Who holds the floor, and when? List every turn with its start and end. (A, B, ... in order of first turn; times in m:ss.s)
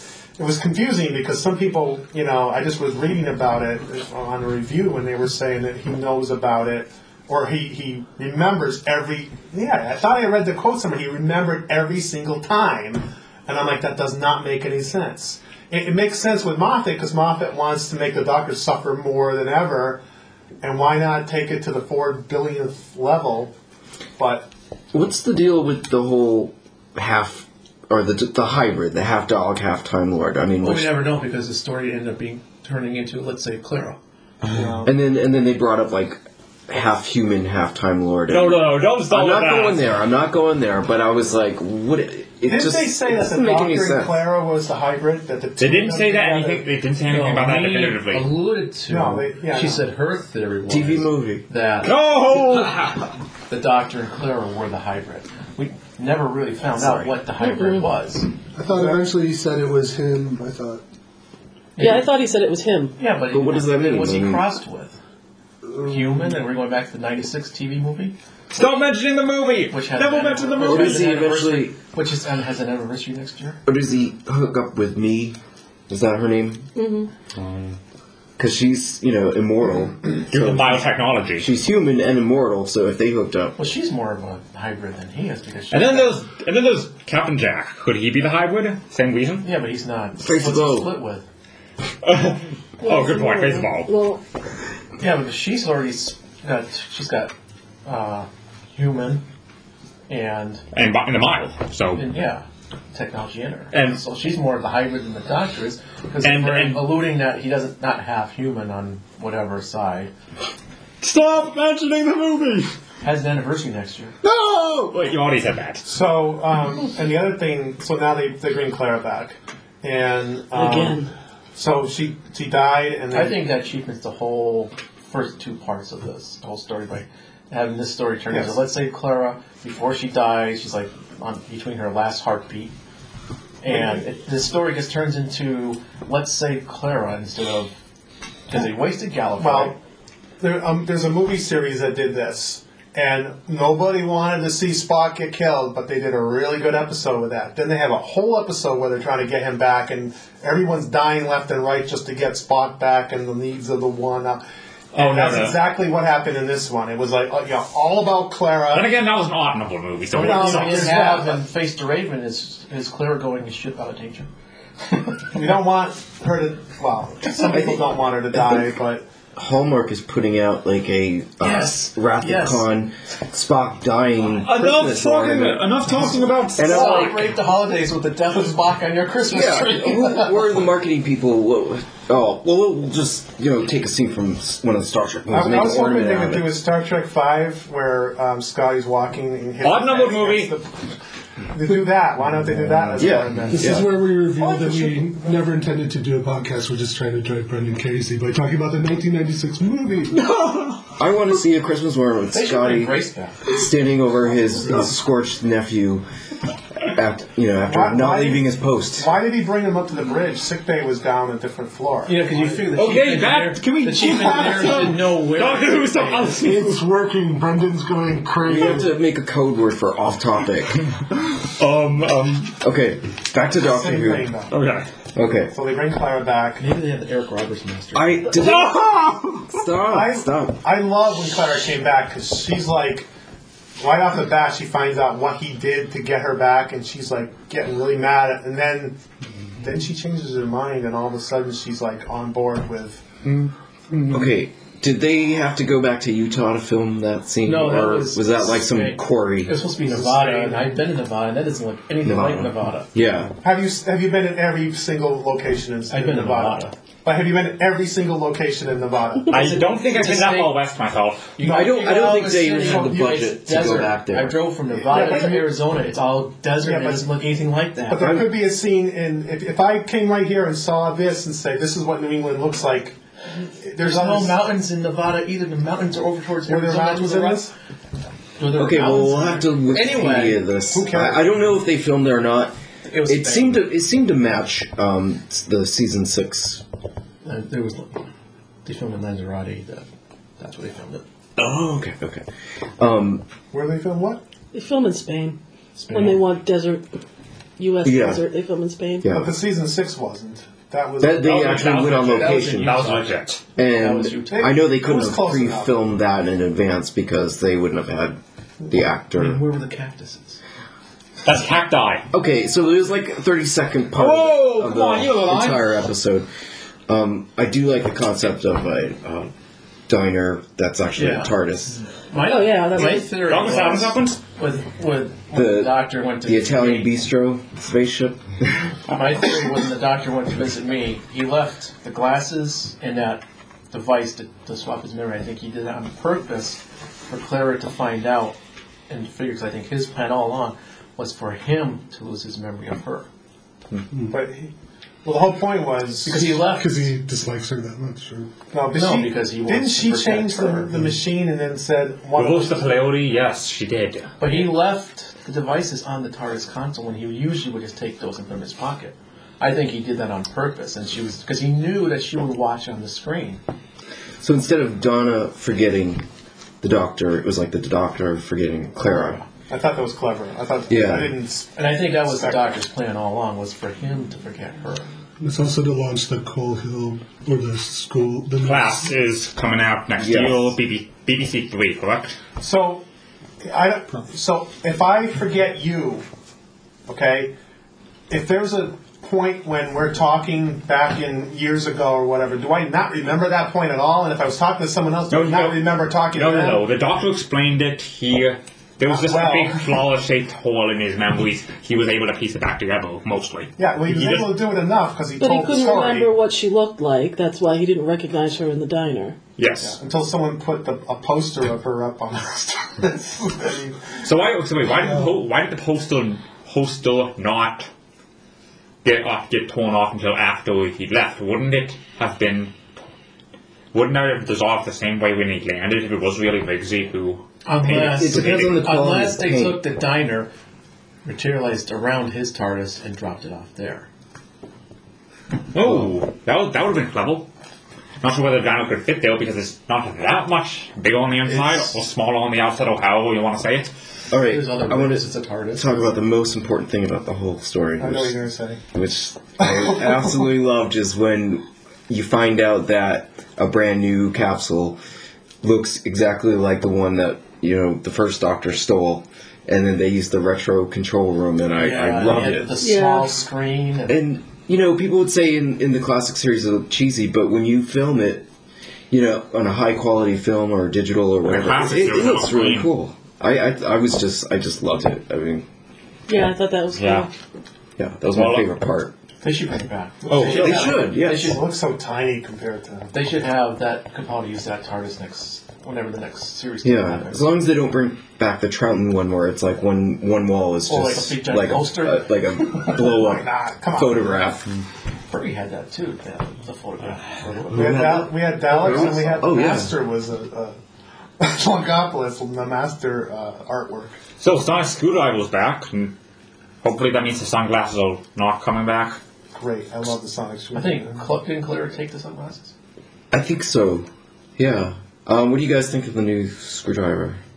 0:00.4-0:20.0 A
0:20.6-0:23.5 A
0:24.2-0:24.5 A
0:24.9-0:30.9 B
0:30.6-0:34.0 C
0:34.5-0:34.9 A
0:34.8-0:44.2 B
0:38.3-0:39.9 D
0:42.5-0:46.6 A
0:45.6-0:48.3 D
0:47.0-0:52.7 C
0:48.9-0:49.9 A
0:50.7-0:51.4 B
0:51.8-0:53.1 D
0:53.5-0:58.3 C
0:56.8-0:57.1 B
0:57.4-0:57.8 E
0:58.5-1:00.8 F
0:58.7-0:59.0 A
1:01.8-1:02.1 C
1:01.8-1:03.0 E
1:03.0-1:05.0 C
1:03.3-1:04.4 B
1:05.8-1:08.1 C
1:08.5-1:11.2 D
1:09.7-1:13.6 C
1:10.6-1:11.8 B
1:13.6-1:15.4 B
1:15.9-1:16.6 B
1:16.8-1:17.1 E
1:17.3-1:17.8 D
1:18.4-1:20.8 B
1:20.3-1:21.5 D
1:21.4-1:23.6 B
1:23.6-1:26.2 C
1:25.7-1:29.5 D
1:29.4-1:31.2 C
1:30.2-1:30.9 B
1:32.0-1:33.9 D
1:32.8-1:34.2 E
1:35.0-1:37.3 C
1:37.8-1:39.2 C
1:40.1-1:40.6 C
1:40.7-1:42.1 D
1:41.9-1:50.1 C
1:43.7-1:44.0 D
1:46.2-1:46.9 D
1:51.0-1:52.7 D
1:53.0-1:54.1 C
1:54.2-1:55.8 D
1:55.8-2:03.4 A
2:00.5-2:01.1 E
2:03.1-2:12.7 C
2:08.3-2:08.6 A
2:13.6-2:17.7 C
2:13.7-2:14.0 A
2:18.5-2:19.8 C
2:19.4-2:19.7 A
2:20.4-2:38.9 A
2:34.9-2:35.6 D
2:38.7-2:41.0 D
2:40.1-2:41.4 A
2:40.1-2:44.3 C
2:44.8-2:45.3 C
2:45.3-2:49.0 A
2:47.4-2:48.8 B
2:49.3-2:55.7 B
2:51.4-2:52.7 C
2:54.4-2:57.3 D
2:56.6-2:57.2 B
2:56.6-3:00.6 C
2:59.3-3:06.6 B
3:05.3-3:10.8 A
3:09.6-3:10.6 D
3:11.5-3:13.8 A
3:12.3-3:20.8 F
3:13.0-3:13.9 B
3:21.0-3:26.0 B
3:22.3-3:23.4 C
3:26.8-3:29.1 B
3:27.6-3:32.7 A
3:32.0-3:36.4 C
3:32.7-3:36.8 D
3:36.3-3:38.9 F
3:38.4-3:40.8 B
3:41.2-3:42.6 D
3:42.6-3:44.3 B
3:43.6-3:44.5 A
3:44.5-3:44.9 D
3:45.1-3:45.5 B
3:45.5-3:46.6 A
3:46.6-3:48.3 C
3:47.9-3:50.6 B
3:48.3-3:49.6 D
3:49.9-3:53.1 A
3:53.8-3:59.0 A
3:59.6-4:03.0 A
4:04.1-4:09.6 B
4:07.4-4:12.9 C
4:09.8-4:10.7 A
4:12.0-4:13.3 B
4:13.4-4:19.6 A
4:15.9-4:16.7 C
4:19.2-4:20.5 C
4:19.3-4:21.3 D
4:21.4-4:28.2 C
4:21.4-4:24.5 B
4:24.8-4:25.5 A
4:26.6-4:27.3 A
4:27.9-4:33.0 A
4:28.0-4:28.3 B
4:33.6-4:34.4 A
4:33.8-4:37.5 C
4:36.5-4:37.5 A
4:38.4-4:40.4 C
4:38.6-4:46.6 B
4:40.7-4:41.3 A
4:42.8-4:43.6 C
4:47.2-4:48.0 C
4:48.6-4:49.8 C
4:50.4-4:51.0 C
4:51.4-4:52.2 B
4:52.8-4:53.3 B
4:53.5-4:54.2 A
4:54.5-4:55.4 E
4:55.8-4:56.2 C
4:55.9-4:56.8 E
4:57.6-4:59.1 E
4:57.8-4:58.2 B
4:59.0-4:59.4 B
4:59.1-5:01.7 A
5:01.0-5:02.9 B
5:01.2-5:03.4 D
5:01.7-5:04.6 C
5:03.6-5:09.4 B
5:04.3-5:05.8 A
5:09.1-5:10.4 C
5:11.2-5:12.1 D
5:12.1-5:16.3 B
5:13.9-5:15.7 D
5:16.9-5:19.3 B
5:19.9-5:21.8 B
5:21.0-5:21.4 C
5:22.1-5:26.9 C
5:22.2-5:23.2 E
5:22.8-5:24.2 D
5:25.3-5:28.7 B
5:28.9-5:38.4 C
5:38.9-5:43.1 C
5:44.1-5:44.5 A
5:45.0-5:46.4 A
5:46.0-5:46.9 C
5:46.5-5:48.3 F
5:48.5-5:52.7 A
5:48.7-5:50.7 C
5:52.1-5:54.1 D
5:54.2-6:03.4 C
6:04.2-6:06.0 B
6:06.6-6:09.2 B
6:09.5-6:12.5 A
6:10.7-6:11.1 B
6:11.5-6:14.9 C
6:15.2-6:18.9 F
6:18.4-6:22.2 D
6:20.0-6:20.5 B
6:22.4-6:22.8 A
6:23.4-6:26.0 A
6:26.9-6:27.3 A
6:28.1-6:36.6 A
6:35.1-6:44.4 D
6:38.8-6:39.6 A
6:43.6-6:46.1 A
6:45.2-6:49.2 E
6:49.4-6:49.8 D
6:49.6-6:54.0 A
6:54.0-6:57.7 D
6:58.8-7:02.6 D
7:03.7-7:08.5 D
7:07.4-7:10.3 C
7:07.6-7:09.6 B
7:11.0-7:13.9 C
7:15.5-7:17.3 D
7:18.0-7:23.7 D
7:24.1-7:28.2 B
7:24.2-7:25.9 C
7:27.8-7:28.6 A
7:28.7-7:34.8 B
7:35.4-7:42.5 B
7:41.6-7:44.0 C
7:42.5-7:43.2 E
7:43.9-7:48.3 B
7:48.9-7:55.4 B
7:51.2-7:52.7 D
7:56.1-7:57.1 E
7:56.7-7:57.1 D
7:57.8-7:59.0 B
7:58.1-7:58.5 D
7:59.2-8:01.4 C
8:00.1-8:02.9 A
8:00.1-8:00.7 D
8:00.2-8:01.4 B
8:02.9-8:07.3 C
8:06.6-8:14.5 B
8:10.7-8:13.0 C
8:12.8-8:14.3 A
8:15.1-8:18.0 C
8:17.5-8:19.8 B
8:17.5-8:20.6 A
8:18.6-8:19.3 C
8:21.2-8:24.0 A
8:24.2-8:25.9 D
8:26.6-8:29.0 D
8:29.3-8:31.0 A
8:30.5-8:32.5 C
8:33.1-8:37.2 B